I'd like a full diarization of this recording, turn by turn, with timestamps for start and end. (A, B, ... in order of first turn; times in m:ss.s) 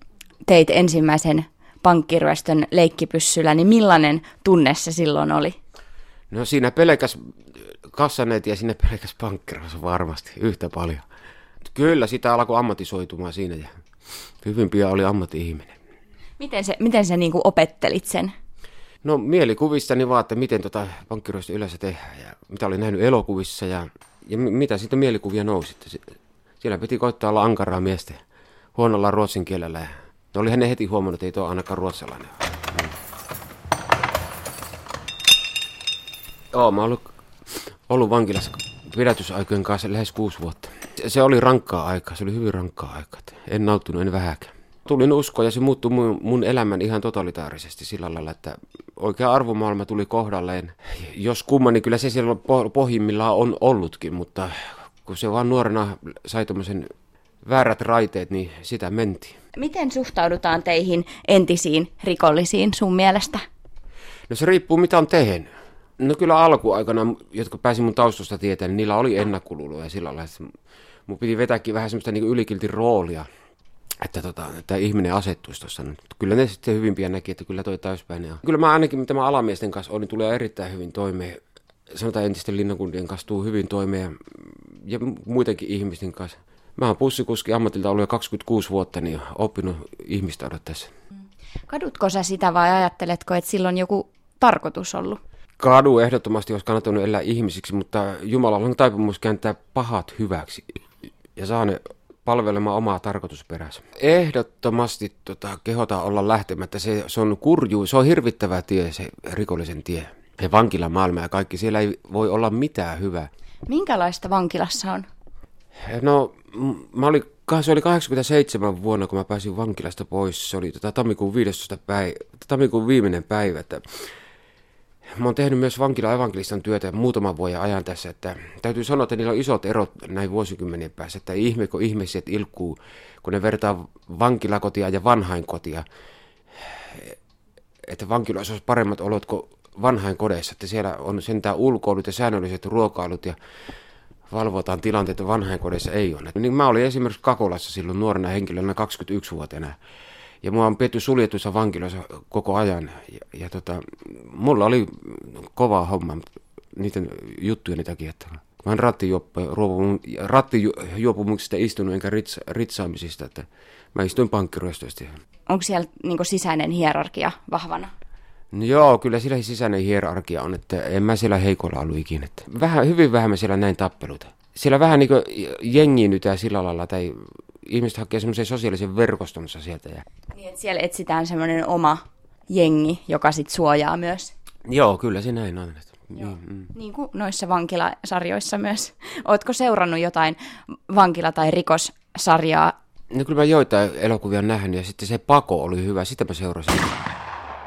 0:00.4-0:05.6 A
0:06.3-0:07.2 B
0:07.9-0:11.0 B
0:11.7-0:13.8 B
0:14.4-0:15.8 B
0:16.4-0:18.3 A
0:19.0-0:28.2 B
0:28.7-0:32.9 B
0:36.5-0:56.9 B
0:57.4-0:59.4 B
0:59.6-1:03.4 A
1:04.3-1:10.5 B
1:11.1-1:13.2 B
1:14.0-1:21.4 B
1:21.9-1:30.9 B
1:31.7-1:35.2 A
1:35.6-1:40.8 B
1:41.4-1:53.3 B
1:53.7-1:55.1 A
1:55.8-2:04.0 B
2:05.2-2:15.8 B
2:16.5-2:17.2 B
2:17.8-2:23.4 B
2:24.3-2:29.8 B
2:30.4-2:45.2 B
2:45.5-2:47.9 A
2:48.5-3:00.0 B
3:00.3-3:04.3 A
3:04.7-3:06.7 B
3:06.7-3:12.7 A
3:13.1-3:16.9 B